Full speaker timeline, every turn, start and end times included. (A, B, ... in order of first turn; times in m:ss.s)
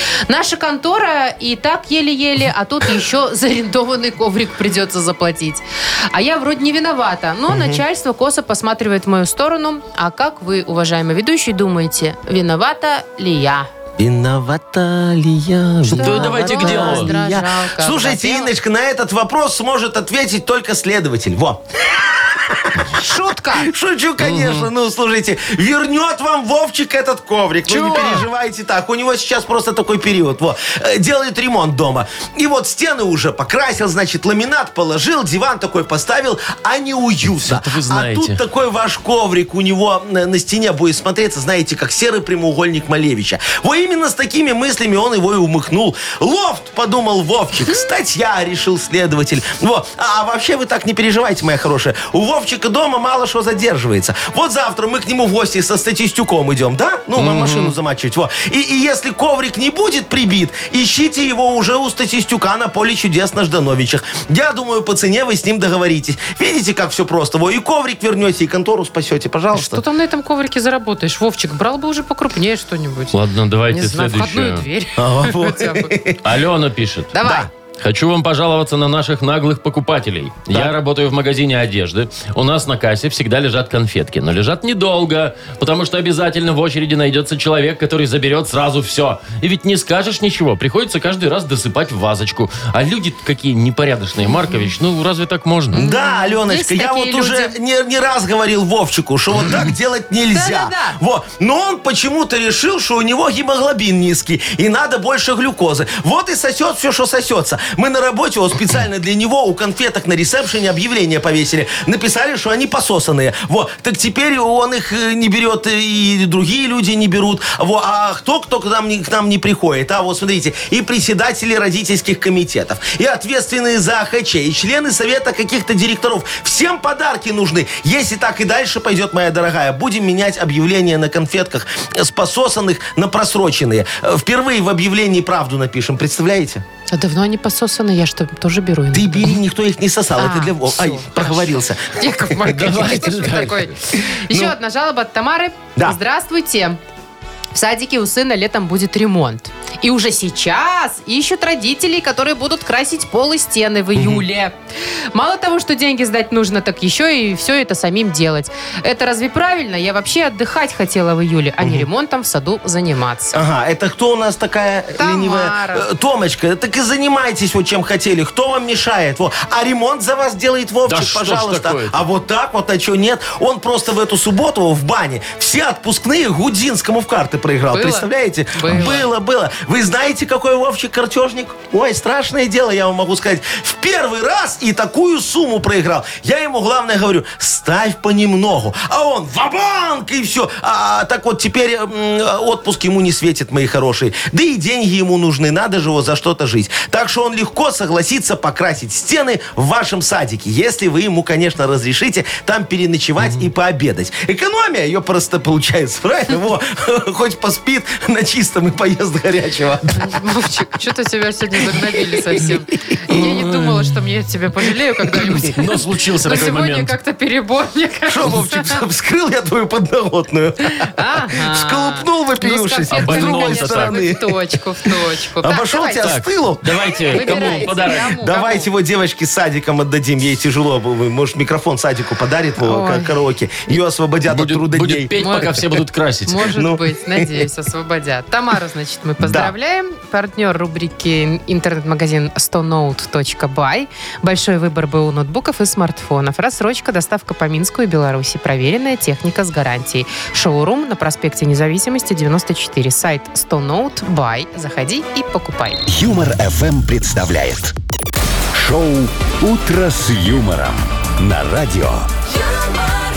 0:00.3-0:13.7 A
0:07.5-0:07.8 B
0:14.0-1:09.8 B
0:15.9-0:18.5 A
0:15.9-0:17.1 C
0:22.9-0:23.7 A
0:24.2-0:24.7 C
0:27.7-0:28.3 C
0:37.4-0:38.4 C
0:57.2-0:57.8 C
1:09.5-1:13.2 A
1:13.1-1:14.6 C
1:13.7-1:15.9 A
1:15.0-1:16.2 B
1:16.2-1:17.1 C
1:17.1-1:17.5 A
1:17.2-1:17.5 B
1:17.8-1:35.8 C
1:34.2-1:34.6 A
1:35.7-1:37.6 A
1:35.7-2:16.6 B
1:40.3-1:41.0 A
2:16.9-2:19.4 A
2:18.9-2:22.9 B
2:20.2-2:26.8 A
2:22.5-2:23.7 C
2:24.3-2:24.5 B
2:27.5-2:34.6 A
2:34.0-2:34.2 B
2:35.1-2:43.4 A
2:41.6-2:41.9 B
2:43.3-3:30.2 B
2:45.0-2:45.8 A
2:50.9-2:52.0 C
2:57.7-2:59.1 A
2:58.7-2:59.0 C
3:23.2-3:23.4 C
3:29.9-3:35.7 A
3:31.7-3:33.4 B
3:33.2-3:33.8 C
3:35.0-3:35.6 B
3:35.4-3:36.9 C
3:36.2-3:38.8 A
3:38.1-3:44.4 B
3:40.6-3:46.1 A
3:42.9-3:44.0 C
3:45.4-3:55.1 B
3:46.0-3:48.2 C
3:47.1-3:48.7 A
3:52.6-3:53.2 A
3:54.3-3:56.4 C
3:55.2-3:55.6 A
3:56.2-4:15.8 A
3:56.5-3:57.3 B
3:59.2-3:59.5 B
4:15.9-4:17.7 D
4:18.5-4:22.1 D